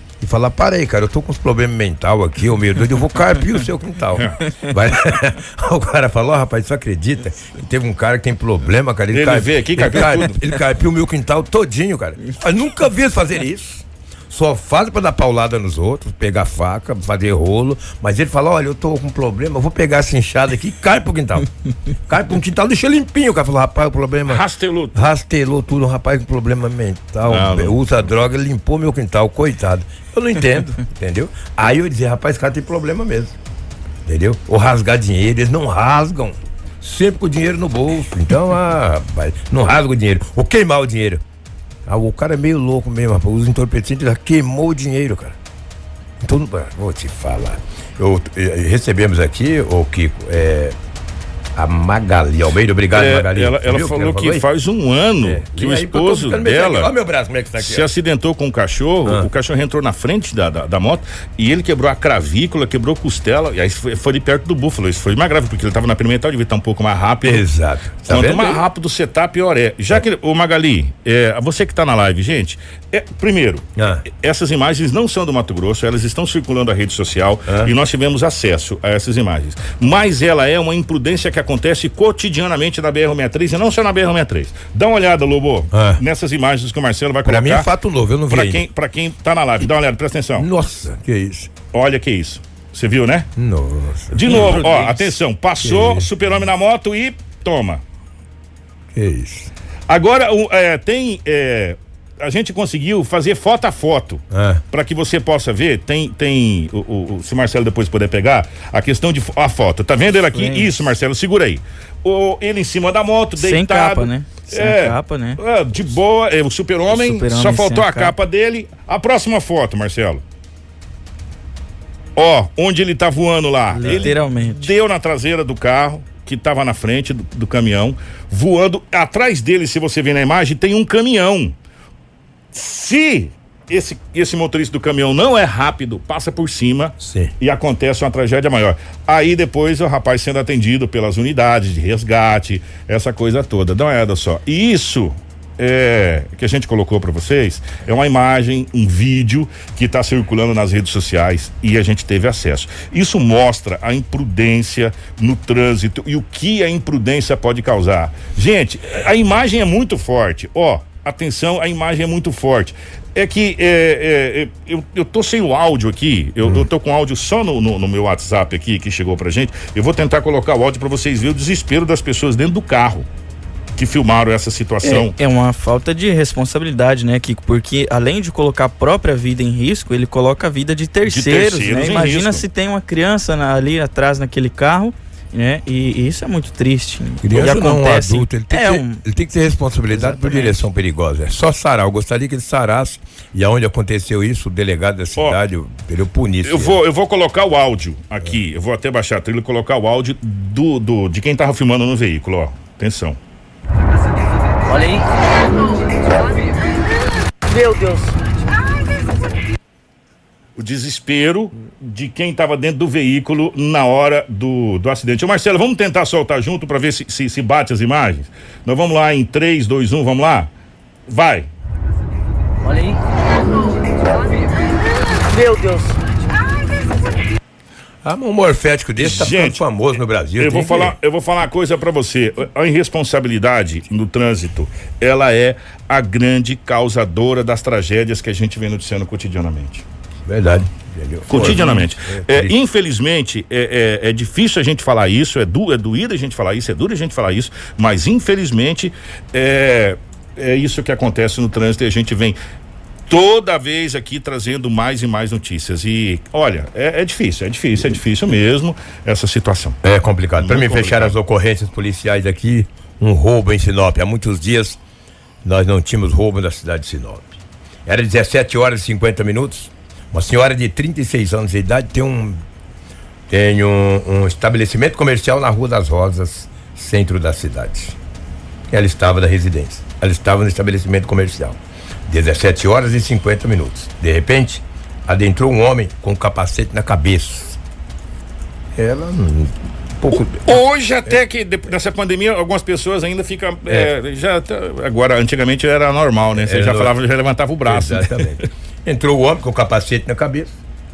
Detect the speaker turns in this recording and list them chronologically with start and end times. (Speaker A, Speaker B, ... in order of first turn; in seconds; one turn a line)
Speaker A: 0.2-21.5
Speaker B: 4.2-4.4
Speaker B: 9.1-10.4
Speaker A: 22.1-33.4
Speaker B: 24.3-25.0
Speaker B: 27.3-28.1
Speaker A: 34.1-41.2
Speaker A: 41.9-45.4
Speaker A: 46.2-50.8
Speaker A: 51.6-54.5
Speaker B: 52.9-56.9
Speaker A: 55.2-57.9
Speaker B: 57.6-67.5
Speaker A: 67.2-68.6
Speaker B: 68.1-87.7
Speaker A: 73.8-74.0
Speaker A: 77.5-77.7
Speaker A: 85.7-86.0
Speaker A: 87.2-88.7
Speaker B: 88.3-90.5
Speaker A: 90.4-91.5
Speaker B: 91.7-93.3
Speaker A: 93.4-96.1
Speaker B: 94.1-97.8
Speaker A: 98.9-99.5
Speaker B: 99.9-120.2
Speaker A: 104.3-104.6
Speaker C: 110.3-110.7
Speaker C: 113.4-115.4
Speaker C: 116.9-118.2
Speaker B: 122.2-131.6
Speaker C: 123.7-124.7
Speaker B: 132.5-173.1
Speaker A: 137.0-137.3
Speaker B: 173.8-175.1
Speaker C: 174.8-189.0
Speaker B: 181.1-182.4
Speaker A: 187.2-196.8
Speaker C: 189.9-190.6
Speaker B: 196.4-203.2
Speaker D: 204.7-205.1
Speaker D: 207.5-208.2
Speaker B: 210.6-220.5
Speaker B: 221.1-221.5
Speaker D: 222.6-223.0
Speaker D: 225.2-226.0
Speaker A: 228.0-230.9
Speaker B: 229.0-229.6
Speaker B: 230.4-239.8
Speaker A: 240.3-242.6
Speaker B: 241.3-252.4
Speaker B: 253.1-259.8
Speaker A: 259.8-264.8
Speaker B: 260.4-261.2
Speaker A: 265.4-272.4
Speaker A: 273.3-278.0
Speaker A: 278.7-287.6
Speaker A: 288.8-290.6
Speaker B: 290.4-298.5
Speaker A: 293.7-293.9
Speaker A: 296.4-297.0
Speaker A: 297.7-300.6